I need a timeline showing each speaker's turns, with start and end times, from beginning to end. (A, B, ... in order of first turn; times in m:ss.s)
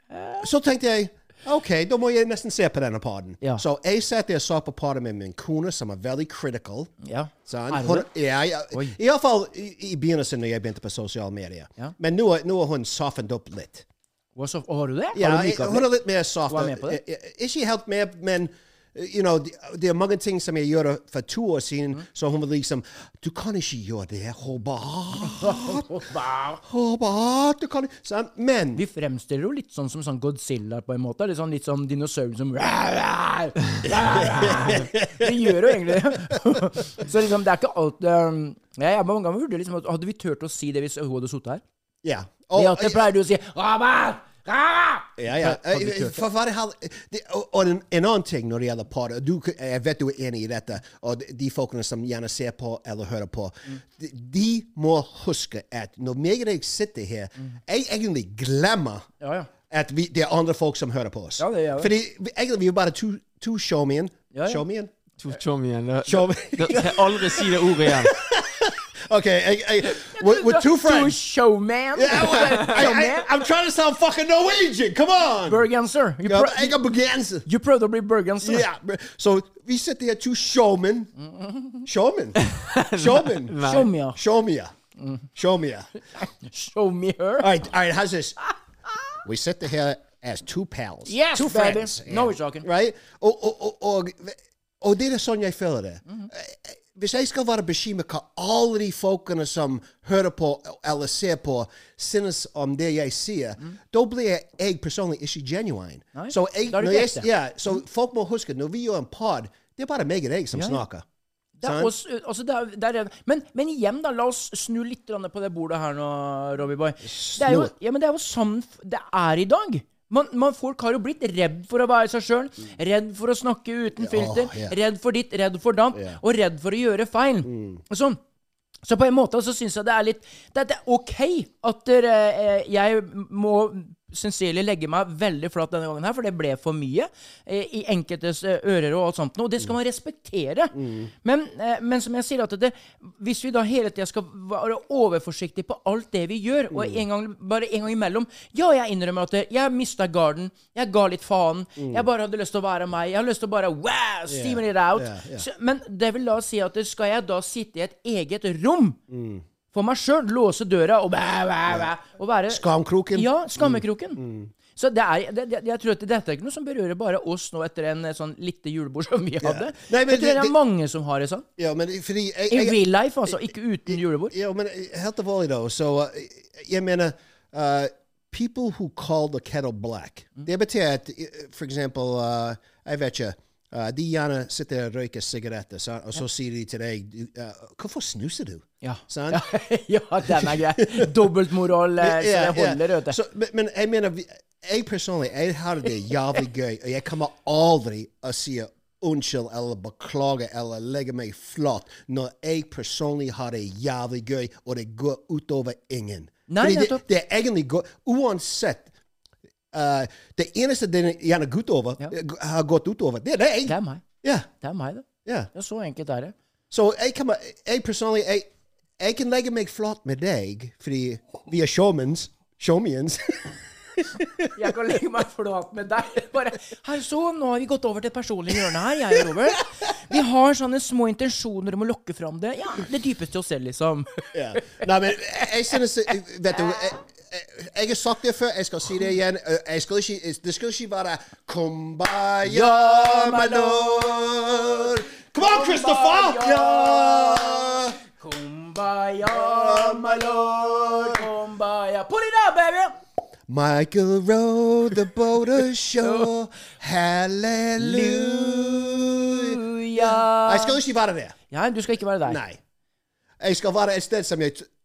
0:00.1-0:00.4 A
0:00.4-0:06.9 B
0:07.0-0:08.1 A
0:07.5-0:13.8 B
0:14.4-0:15.9 A
0:15.1-0:25.9 B
0:16.5-0:17.0 A
0:25.4-0:26.6 A
0:26.6-0:28.8 B
0:28.8-0:41.6 A
0:34.4-0:36.3 B
0:42.0-0:43.1 B
0:42.6-0:46.2 A
0:45.2-0:59.1 B
0:59.2-0:59.5 A
0:59.7-1:04.9 B
1:01.4-1:01.9 A
1:04.3-1:04.6 A
1:05.2-1:08.1 C
1:06.1-1:11.2 B
1:10.0-1:13.3 A
1:11.9-1:15.7 B
1:15.5-1:16.8 A
1:16.2-1:17.5 B
1:17.5-1:18.6 A
1:18.4-1:21.1 B
1:21.2-1:21.8 A
1:21.8-1:24.7 B
1:22.5-1:23.9 C
1:23.6-1:24.2 A
1:25.0-1:25.2 A
1:25.4-1:25.9 B
1:26.2-1:27.5 A
1:27.4-1:28.4 B
1:29.2-1:51.0 B
1:31.1-1:32.7 A
1:46.2-1:47.3 A
1:50.5-1:50.8 A
1:51.6-2:08.2 A
1:51.6-1:51.9 B
1:57.0-1:57.7 B
2:04.0-2:04.8 B
2:05.9-2:06.2 B
2:07.4-2:07.8 B
2:08.8-2:39.0 A
2:20.7-2:21.1 B
2:26.7-2:27.0 B
2:31.8-2:32.1 B
2:34.3-2:35.4 B
2:39.1-2:39.4 B
2:39.7-2:44.2 A
2:42.5-2:44.5 B
2:44.8-2:51.4 A
2:49.4-2:50.6 B
2:51.6-3:09.5 B
2:52.5-2:54.3 A
3:08.8-3:13.2 A
3:10.3-3:11.1 B
3:12.0-3:28.9 B
3:26.5-3:27.0 A
3:29.7-3:34.5 B
3:33.7-3:34.0 A
3:34.6-3:36.3 A
3:36.7-3:38.5 B
3:39.0-3:44.5 B
3:44.5-3:54.8 A
3:54.3-4:08.0 B
4:02.4-4:04.5 A
4:05.4-4:12.9 A
4:09.3-4:11.2 B
4:13.5-4:21.4 B
4:16.0-4:16.3 A
4:17.8-4:20.8 A
4:21.5-4:22.4 A
4:22.2-4:22.6 B
4:23.4-4:24.7 B